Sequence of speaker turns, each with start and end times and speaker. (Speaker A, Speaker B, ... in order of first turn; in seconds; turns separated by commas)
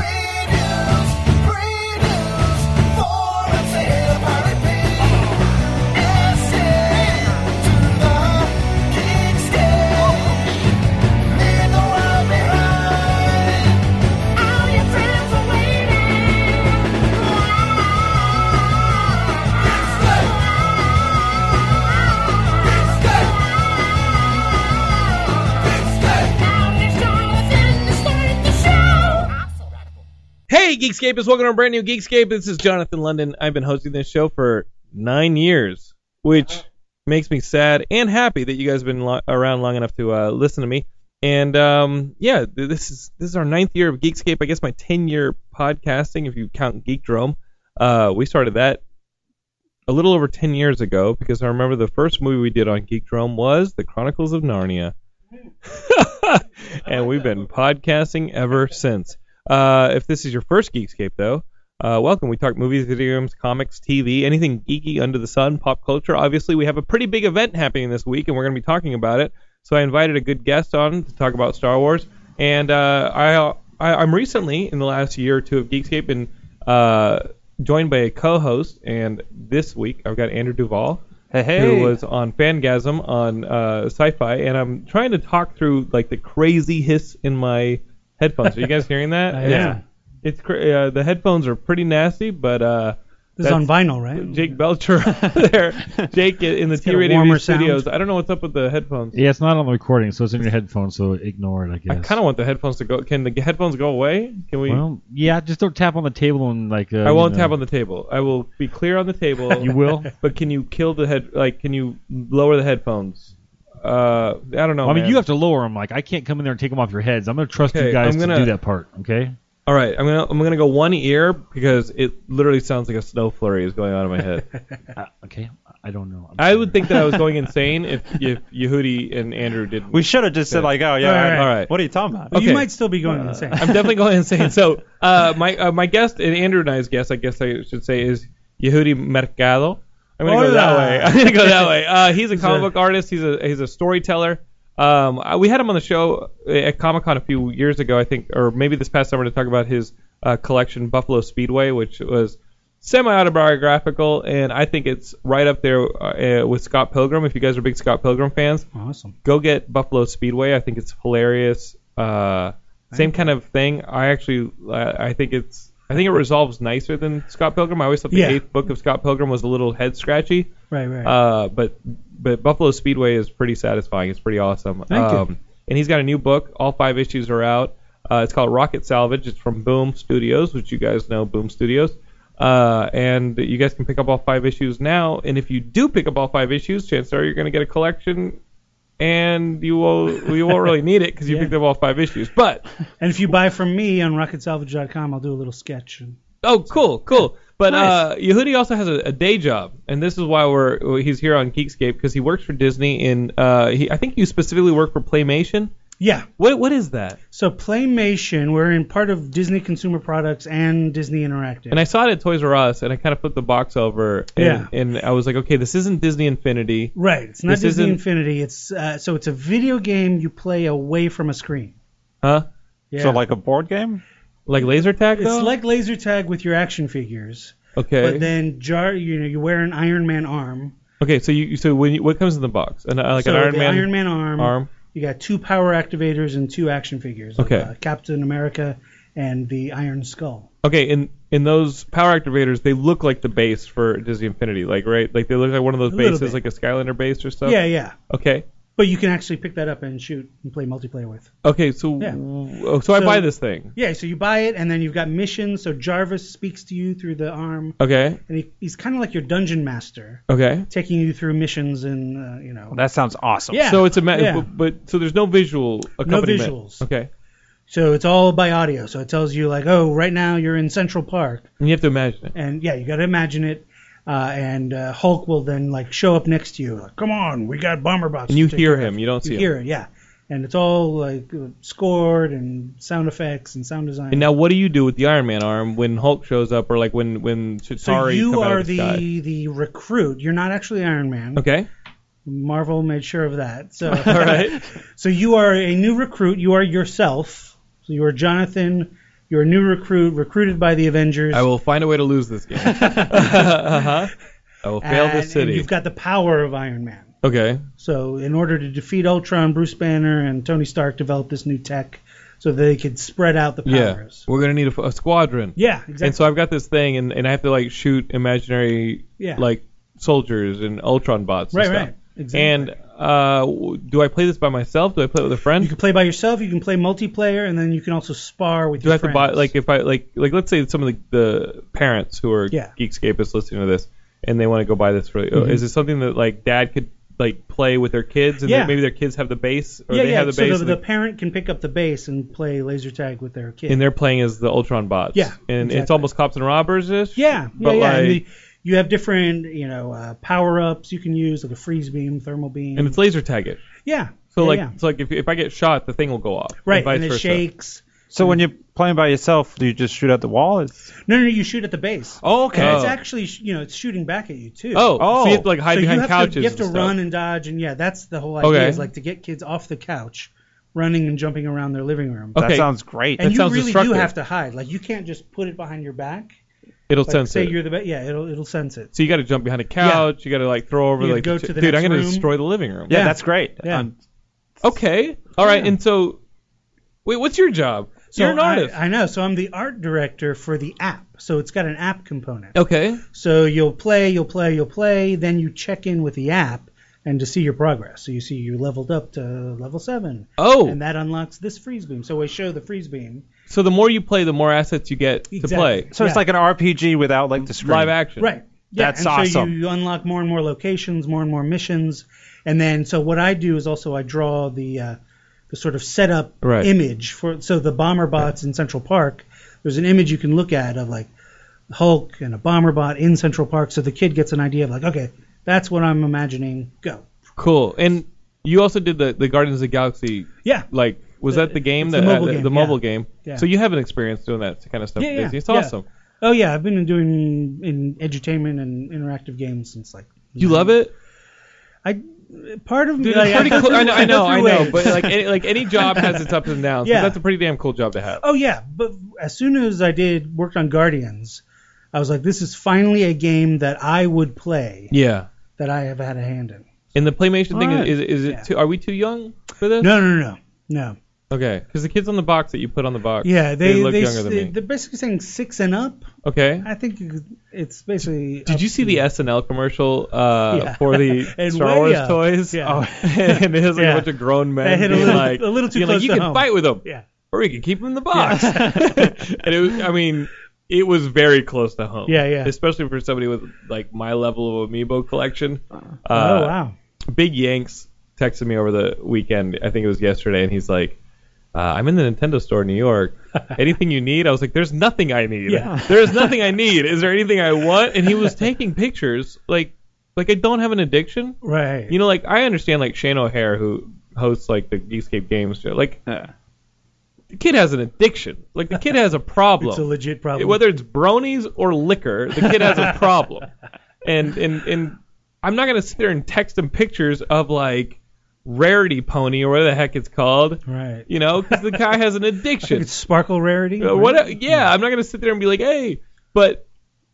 Speaker A: 0.5-1.0, Speaker A: 3.3-4.4, Speaker A: 8.0-8.5, Speaker A: 9.4-10.2, Speaker B: 30.5-48.8, Speaker B: 49.9-54.9, Speaker B: 55.7-81.0, Speaker A: 81.3-82.0, Speaker B: 81.5-99.2, Speaker C: 89.3-89.8, Speaker A: 89.5-89.8, Speaker C: 93.4-94.4, Speaker C: 96.8-97.9, Speaker D: 99.1-102.2, Speaker B: 101.9-104.8, Speaker D: 104.7-107.5, Speaker B: 107.0-113.3, Speaker D: 109.6-110.1, Speaker B: 113.8-115.2, Speaker D: 114.8-119.4, Speaker B: 117.6-118.5, Speaker B: 119.7-124.5, Speaker D: 125.0-127.5, Speaker B: 126.4-130.7, Speaker A: 129.9-132.4, Speaker C: 131.0-131.6, Speaker B: 131.3-131.7, Speaker B: 132.3-132.7, Speaker C: 132.3-133.8, Speaker A: 133.1-133.6, Speaker B: 133.6-158.7, Speaker C: 140.2-141.7, Speaker C: 142.3-142.7, Speaker C: 158.8-159.1, Speaker B: 159.2-170.5, Speaker C: 168.1-168.4, Speaker C: 170.7-171.1, Speaker B: 171.0-188.4, Speaker C: 174.9-175.2, Speaker B: 189.0-192.7, Speaker C: 191.3-191.5, Speaker C: 193.0-196.2, Speaker B: 196.4-205.7, Speaker C: 196.7-198.0, Speaker C: 206.0-206.3, Speaker B: 206.4-207.2, Speaker C: 207.3-211.8, Speaker B: 211.7-216.9, Speaker C: 214.4-214.7, Speaker C: 216.9-221.8, Speaker B: 217.5-218.0, Speaker C: 222.9-223.2, Speaker A: 223.0-224.0, Speaker B: 224.5-225.5, Speaker C: 225.2-230.8, Speaker B: 227.8-228.3, Speaker B: 231.0-234.7, Speaker C: 233.2-240.5, Speaker B: 237.4-237.7, Speaker B: 240.6-248.4, Speaker C: 245.9-246.4, Speaker C: 247.4-247.9, Speaker C: 248.8-251.3, Speaker B: 251.4-253.7, Speaker C: 252.9-257.8, Speaker B: 257.8-258.2, Speaker C: 258.3-262.8, Speaker B: 260.3-260.7, Speaker A: 262.7-263.6, Speaker C: 263.5-264.5, Speaker B: 263.6-267.1, Speaker C: 266.1-266.9, Speaker C: 267.7-271.5, Speaker B: 271.6-272.3, Speaker C: 272.4-284.3, Speaker B: 278.3-279.5, Speaker B: 284.1-289.0, Speaker C: 287.8-291.4, Speaker B: 291.4-291.7, Speaker C: 292.3-301.4, Speaker B: 293.9-294.6, Speaker B: 301.3-304.1, Speaker C: 302.8-303.8, Speaker B: 304.6-305.7, Speaker C: 304.8-307.1, Speaker B: 307.2-307.6, Speaker C: 307.8-314.2, Speaker B: 313.7-325.7, Speaker C: 315.6-316.2, Speaker C: 319.2-319.4, Speaker C: 321.5-322.7, Speaker C: 325.6-329.5, Speaker B: 328.8-340.8, Speaker C: 335.3-335.6, Speaker C: 338.4-338.8, Speaker C: 339.9-343.8, Speaker B: 343.7-348.2, Speaker C: 345.1-346.1, Speaker C: 347.2-353.0, Speaker B: 352.8-353.6, Speaker C: 353.9-354.7, Speaker B: 354.4-357.4, Speaker C: 356.7-358.4, Speaker A: 358.1-360.9, Speaker C: 361.1-365.1, Speaker A: 362.2-362.9, Speaker B: 362.6-362.9, Speaker B: 364.7-366.9, Speaker A: 365.0-365.5, Speaker C: 365.7-372.4, Speaker B: 368.4-368.9, Speaker B: 372.4-372.7, Speaker A: 372.4-373.2, Speaker B: 373.2-374.1, Speaker C: 373.2-376.4, Speaker B: 376.9-377.5, Speaker C: 377.1-378.9, Speaker B: 378.9-382.9, Speaker C: 379.8-380.1, Speaker C: 381.0-382.3, Speaker A: 382.9-383.9, Speaker C: 382.9-383.9, Speaker B: 384.6-386.2, Speaker C: 385.4-385.7, Speaker B: 387.1-388.8, Speaker C: 388.1-392.6, Speaker B: 392.5-393.0, Speaker C: 393.1-403.3, Speaker B: 400.4-400.8, Speaker B: 403.5-405.9, Speaker C: 405.3-406.2, Speaker A: 405.9-407.9, Speaker B: 407.6-408.3, Speaker C: 408.2-415.0, Speaker A: 408.8-409.5, Speaker C: 415.5-421.1, Speaker B: 416.4-416.7, Speaker C: 421.7-427.1, Speaker B: 427.4-435.8, Speaker C: 431.3-433.4, Speaker C: 435.0-440.8, Speaker B: 440.4-440.9, Speaker C: 441.9-445.3, Speaker B: 443.0-448.2, Speaker A: 444.8-445.1, Speaker C: 445.8-446.2, Speaker C: 446.8-447.2, Speaker C: 448.2-454.9, Speaker B: 454.9-455.3, Speaker C: 455.6-456.7, Speaker B: 456.9-460.0, Speaker C: 457.5-458.5, Speaker C: 459.8-461.0, Speaker B: 461.3-464.5, Speaker C: 463.2-466.1, Speaker B: 466.2-466.7, Speaker C: 466.6-469.0, Speaker B: 468.5-486.5, Speaker C: 470.5-472.8, Speaker A: 472.6-473.4, Speaker C: 473.8-474.1, Speaker C: 474.6-477.1, Speaker C: 478.1-478.9, Speaker A: 478.3-478.9, Speaker C: 482.1-482.5, Speaker C: 486.1-486.7, Speaker B: 487.1-491.0, Speaker B: 491.5-506.0, Speaker C: 495.5-495.9, Speaker C: 501.4-501.9, Speaker B: 507.3-513.5, Speaker C: 509.6-510.6, Speaker C: 512.4-512.9, Speaker B: 514.0-522.9, Speaker C: 520.7-521.8, Speaker C: 522.7-524.7, Speaker B: 523.8-526.6